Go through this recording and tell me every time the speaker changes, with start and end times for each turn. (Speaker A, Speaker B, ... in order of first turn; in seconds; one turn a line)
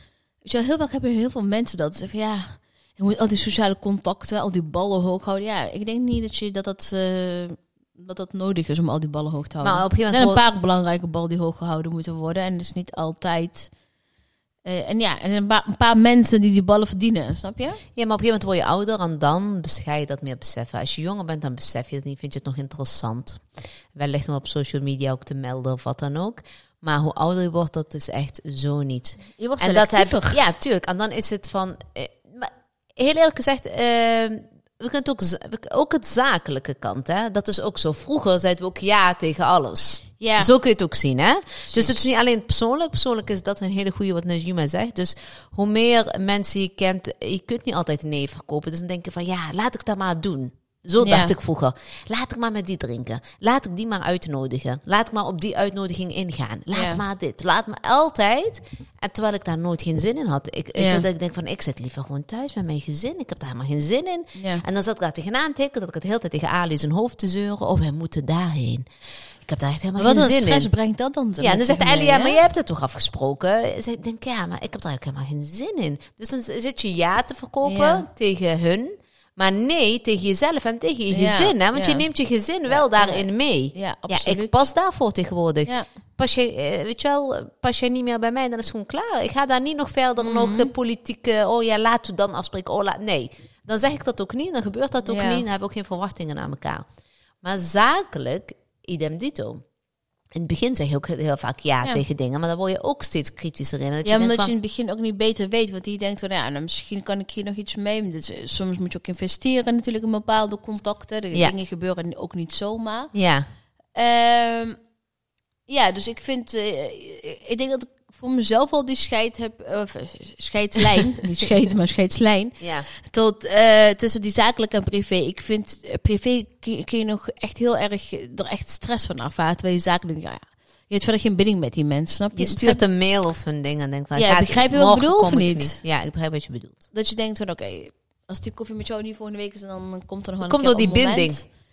Speaker A: 0.4-13.7
Speaker B: 9.6-10.4
Speaker A: 14.6-17.8
Speaker B: 17.9-68.9
Speaker A: 29.4-30.4
Speaker A: 40.2-40.5
Speaker A: 41.7-42.0
Speaker A: 51.0-51.3
Speaker A: 56.7-57.0
Speaker A: 60.7-61.0
Speaker A: 64.3-64.6
Speaker B: 69.4-70.7
Speaker A: 70.0-72.4
Speaker B: 71.4-96.8
Speaker A: 77.6-78.1
Speaker A: 81.1-82.0
Speaker A: 82.7-84.7
Speaker A: 90.2-90.7
Speaker A: 95.0-95.4
Speaker B: 97.4-99.6
Speaker B: 100.3-104.5
Speaker A: 104.0-113.1
Speaker B: 113.1-113.5
Speaker A: 113.9-114.8
Speaker A: 115.7-132.8
Speaker B: 122.6-122.9
Speaker B: 132.3-136.8
Speaker A: 134.1-135.8
Speaker A: 136.9-141.4
Speaker B: 140.4-141.4